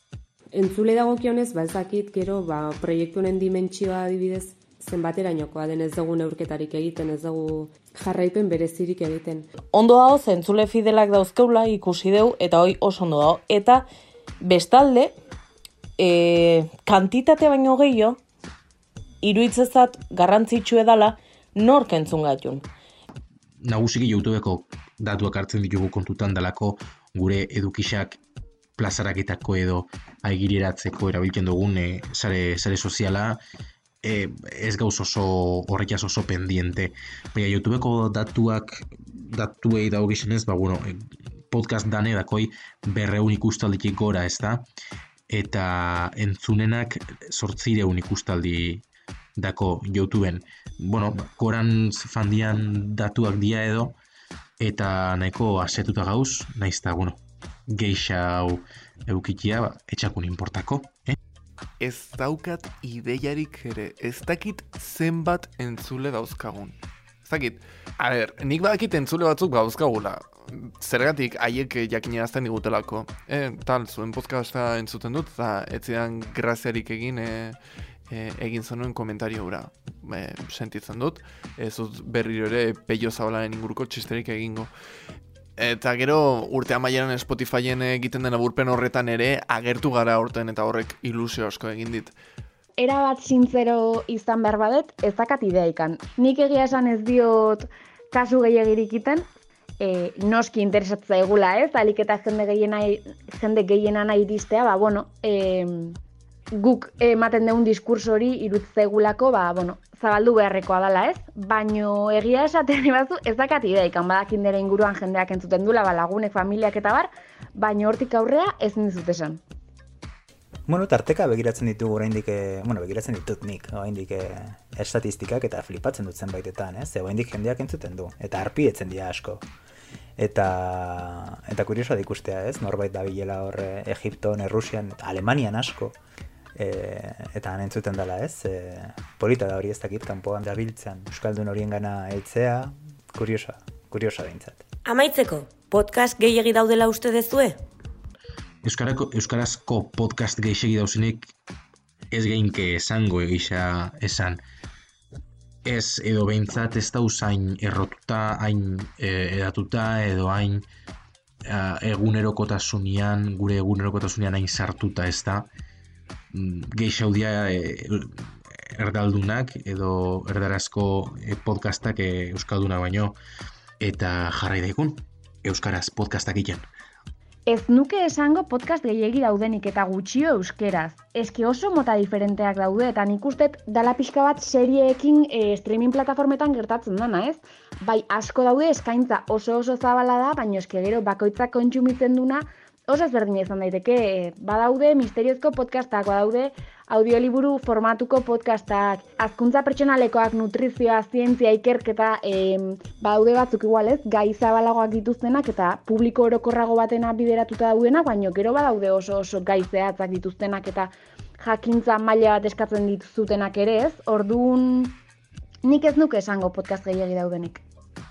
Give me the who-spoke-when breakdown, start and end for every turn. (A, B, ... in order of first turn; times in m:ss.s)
0:00.5-0:09.5 A
0:09.7-0:13.8 B
0:14.4-0:15.1 B
0:16.0-0:18.2 B
0:19.2-0:22.6 B
0:23.6-0:28.2 C
0:28.8-0:33.4 C
0:34.0-0:44.6 C
0:45.3-0:48.8 C
0:49.4-0:53.9 C
0:54.6-1:01.2 C
1:01.8-1:17.6 D
1:18.1-1:24.7 D
1:25.6-1:32.1 D
1:32.8-1:39.2 E
1:39.8-1:46.0 E
1:46.5-1:59.4 E
2:00.7-2:09.4 F
2:10.2-2:16.0 F
2:16.5-2:24.6 F
2:24.8-2:27.6 G
2:28.6-2:31.3 C
2:32.1-2:34.4 C
2:35.6-2:40.6 C
2:41.4-2:45.5 C
2:46.3-2:48.1 C
2:48.7-2:53.2 C
2:53.8-2:56.6 C
2:57.5-3:35.0 E
3:35.6-3:37.6 E